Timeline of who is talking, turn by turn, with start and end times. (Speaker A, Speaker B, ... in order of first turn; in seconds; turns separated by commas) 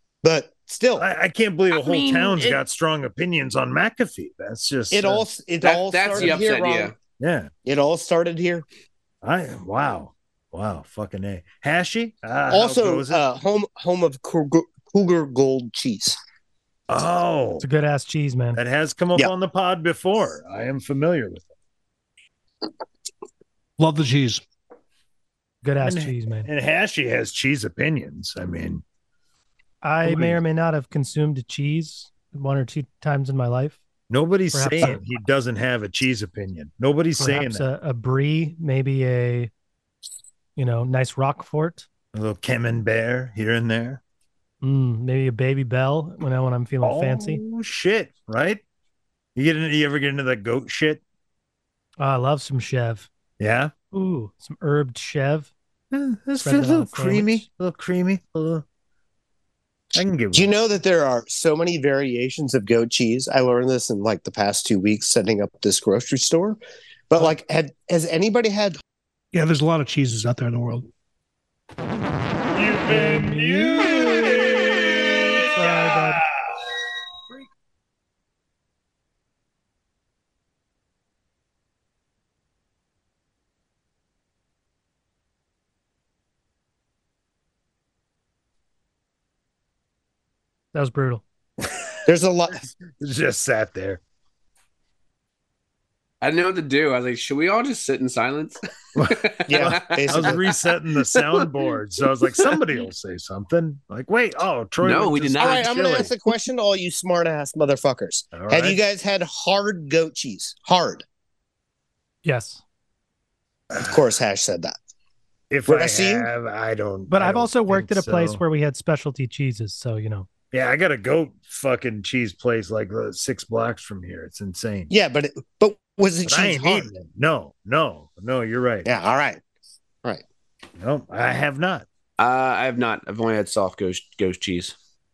Speaker A: 0.2-1.1, Speaker B: 1.0-5.2, Speaker C: 1.7-2.6, Speaker A: 4.9-6.9, Speaker C: 5.6-6.9, Speaker B: 7.2-7.5, Speaker A: 7.7-8.7, Speaker B: 9.2-13.2, Speaker A: 12.5-16.2, Speaker B: 16.9-17.7, Speaker D: 17.6-18.6, Speaker B: 18.6-21.5, Speaker E: 23.8-24.4, Speaker D: 25.6-26.5, Speaker B: 25.8-28.8, Speaker D: 29.8-33.8, Speaker B: 30.0-30.4, Speaker B: 34.1-37.7, Speaker D: 34.5-35.0, Speaker D: 37.2-39.5, Speaker D: 40.6-41.9, Speaker B: 42.1-44.0, Speaker D: 44.6-47.4, Speaker B: 46.8-48.6, Speaker B: 49.4-51.0, Speaker D: 52.0-53.1, Speaker B: 53.4-53.7, Speaker D: 53.9-55.5, Speaker B: 55.9-58.6, Speaker D: 56.4-57.4, Speaker B: 59.9-60.5, Speaker A: 60.3-66.6, Speaker A: 67.1-68.8, Speaker E: 69.3-70.9, Speaker B: 72.5-76.6, Speaker D: 72.8-74.1, Speaker D: 75.4-76.2, Speaker D: 90.7-91.2, Speaker A: 92.1-92.7, Speaker B: 92.9-94.0, Speaker C: 96.2-100.5, Speaker B: 99.0-106.1, Speaker A: 99.5-100.4, Speaker C: 104.8-105.8, Speaker A: 105.4-111.0, Speaker B: 108.3-108.8, Speaker D: 112.2-112.6, Speaker A: 113.8-114.8, Speaker B: 115.5-118.4, Speaker A: 115.7-116.3, Speaker D: 117.1-120.3, Speaker B: 120.5-124.9, Speaker A: 124.9-126.9, Speaker B: 126.3-128.9, Speaker A: 128.8-129.4, Speaker B: 130.8-131.8, Speaker C: 132.2-134.7